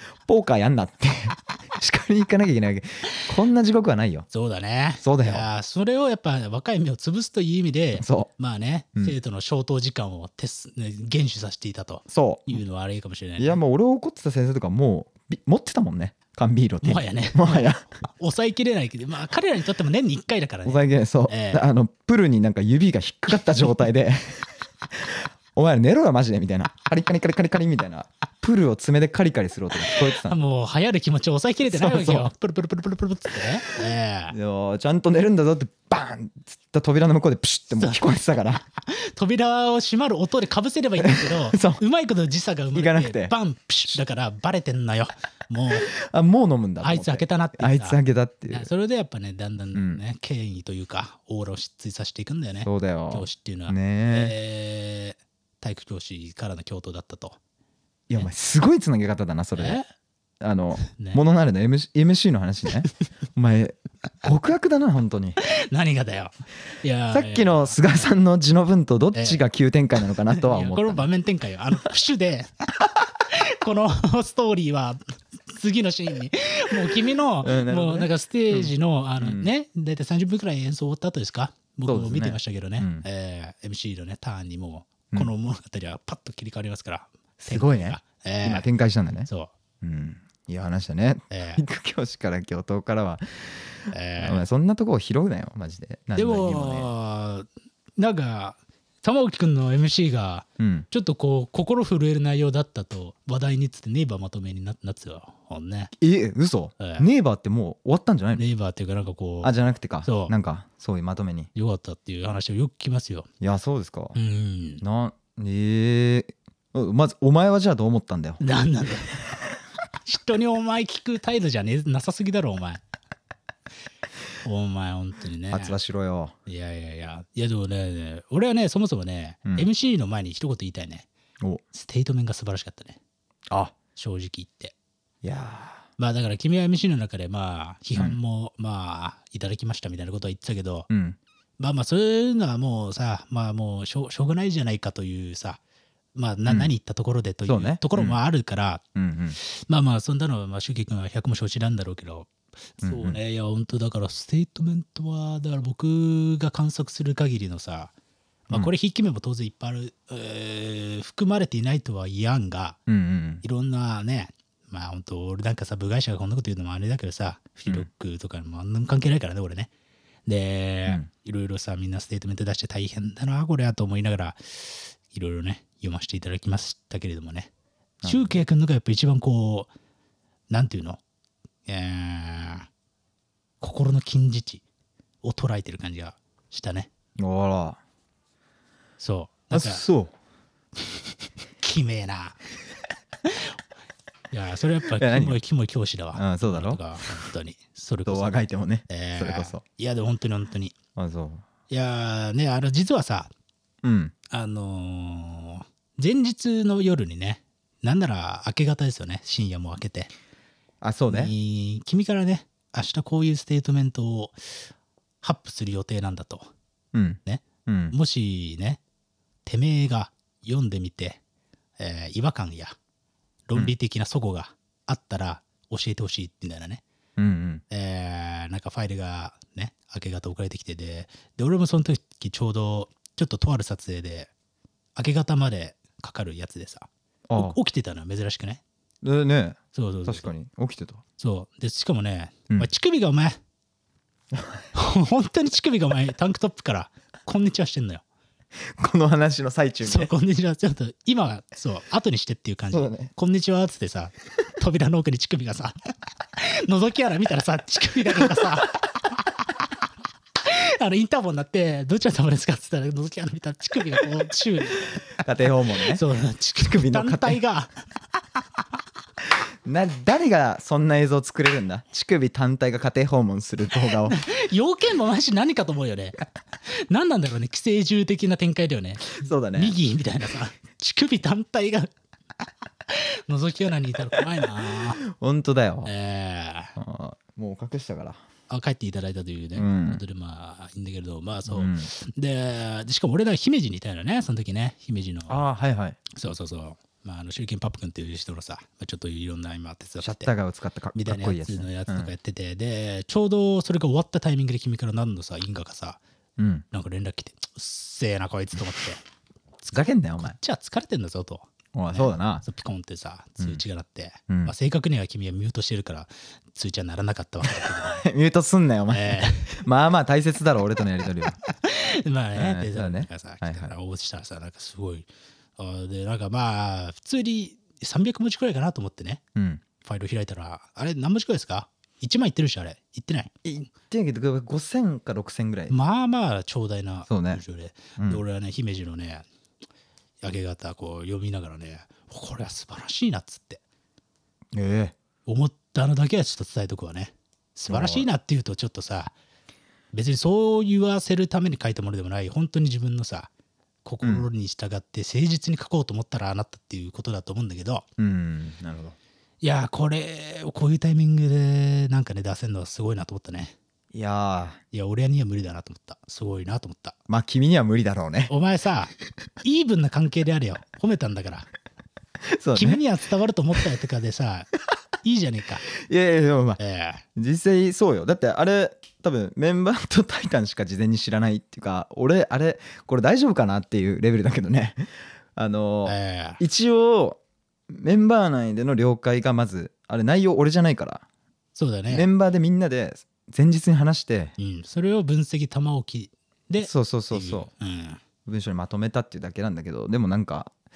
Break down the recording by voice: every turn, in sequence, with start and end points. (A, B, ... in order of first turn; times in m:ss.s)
0:00.2-0:04.3 A
0:04.3-0:13.6 B
0:05.0-0:05.5 A
0:08.0-0:08.3 A
0:12.1-0:12.6 A
0:13.4-0:17.9 A
0:16.8-0:21.7 B
0:20.6-0:30.4 A
0:29.9-0:34.4 B
0:31.7-0:32.3 A
0:34.3-0:38.6 A
0:38.8-0:45.9 B
0:41.0-0:41.8 A
0:42.7-0:43.3 A
0:45.9-0:48.7 A
0:46.8-0:48.0 B
0:48.5-0:57.4 B
0:49.7-0:50.0 A
0:52.6-0:54.4 A
0:58.1-0:59.8 A
0:59.6-0:59.9 B
1:00.4-1:05.4 A
1:00.8-1:01.2 B
1:05.4-1:07.8 B
1:07.1-1:11.1 A
1:09.1-1:09.4 B
1:10.3-1:12.5 B
1:13.2-1:28.7 B
1:17.4-1:19.5 A
1:21.9-1:23.0 A
1:27.4-1:29.3 A
1:29.3-1:29.5 B
1:29.8-1:36.9 A
1:31.3-1:31.6 B
1:33.9-1:34.4 B
1:36.2-1:45.9 B
1:40.6-1:40.9 A
1:46.0-1:48.4 A
1:46.8-1:47.1 B
1:48.4-1:50.3 B
1:49.4-1:51.5 A
1:51.6-1:53.3 B
1:53.4-1:54.2 A
1:54.2-1:54.8 B
1:54.8-1:58.4 A
1:58.4-1:59.2 B
2:00.1-2:02.8 B
2:04.4-2:05.8 B
2:05.5-2:06.4 A
2:06.5-2:11.1 B
2:11.7-2:13.0 B
2:13.5-2:13.8 A
2:14.0-2:14.8 B
2:15.2-2:15.9 A
2:16.0-2:20.9 B
2:20.9-2:21.2 A
2:21.6-2:25.6 B
2:26.2-2:28.8 B
2:26.5-2:26.7 A
2:27.4-2:28.2 A
2:29.0-2:29.4 A
2:29.4-2:37.9 B
2:32.8-2:33.2 A
2:38.5-2:42.8 B
2:42.9-2:43.4 A
2:43.4-2:49.7 B
2:50.3-2:57.5 B
2:58.0-2:58.4 A
2:58.0-2:59.7 B
3:00.5-3:01.0 B
3:01.7-3:02.7 B
3:03.6-3:04.6 B
3:05.2-3:06.9 B
3:07.2-3:07.8 A
3:09.0-3:09.8 B
3:09.5-3:10.1 A
3:11.6-3:12.4 B
3:13.3-3:13.5 B
3:14.3-3:20.8 B
3:15.0-3:15.4 A
3:16.1-3:16.8 A
3:18.1-3:19.6 A
3:21.0-3:21.5 A
3:21.7-3:23.3 B
3:23.8-3:24.1 A
3:24.3-3:30.1 B
3:30.8-3:31.3 A
3:31.1-3:34.5 B
3:35.2-3:36.5 B
3:36.9-3:38.0 A
3:37.2-3:38.8 B
3:39.4-3:41.2 B
3:41.8-3:42.8 B
3:43.5-3:46.8 B
3:47.2-3:47.6 A
3:47.7-3:54.3 B
3:55.0-3:58.6 B
3:57.3-3:57.6 A
3:59.0-4:01.0 A
3:59.7-4:00.3 B
4:01.2-4:03.4 B
4:04.3-4:04.6 A
4:04.7-4:08.0 B
4:08.6-4:10.1 A
4:09.8-4:15.8 B
4:12.7-4:13.1 A
4:16.4-4:18.8 B
4:20.4-4:25.0 B
4:25.2-4:26.0 A
4:25.9-4:27.7 B
4:26.6-4:27.4 A
4:29.6-4:34.2 A
4:34.0-4:41.9 B
4:39.1-4:39.8 A
4:42.9-4:45.0 B
4:45.0-4:45.9 A
4:45.8-4:46.8 B
4:46.8-4:48.2 A
4:48.5-4:55.4 B
4:49.6-4:50.0 A
4:51.5-4:51.9 A
4:55.3-4:56.0 A
4:56.1-5:00.3 B
5:00.0-5:02.1 A
5:01.0-5:06.0 B
5:06.4-5:06.6 A
5:06.7-5:09.0 B
5:09.6-5:18.1 B
5:09.7-5:10.4 A
5:11.7-5:12.4 A
5:14.3-5:14.5 A
5:17.5-5:21.4 A
5:18.9-5:19.6 B
5:21.5-5:29.2 B
5:22.4-5:23.7 A
5:29.4-5:29.6 A
5:29.8-5:33.3 B
5:33.4-5:35.8 A
5:35.7-5:39.3 B
5:37.1-5:37.4 A
5:38.0-5:38.2 A
5:40.2-5:43.6 B
5:44.5-5:45.0 A
5:45.3-5:49.1 B
5:47.7-5:48.1 A
5:49.9-5:53.3 B
5:53.8-5:57.9 B
5:58.0-5:59.0 A
5:59.4-6:03.6 B
6:03.9-6:04.6 A
6:04.7-6:07.0 B
6:07.1-6:08.3 A
6:08.3-6:11.5 B
6:12.3-6:12.8 A
6:12.6-6:14.5 B
6:15.0-6:15.7 B
6:15.8-6:16.6 A
6:16.6-6:17.0 B
6:17.2-6:31.0 A
6:25.8-6:26.4 B
6:31.6-6:32.1 B
6:31.9-6:34.4 A
6:34.4-6:38.0 B
6:36.6-6:37.5 A
6:38.3-6:40.6 A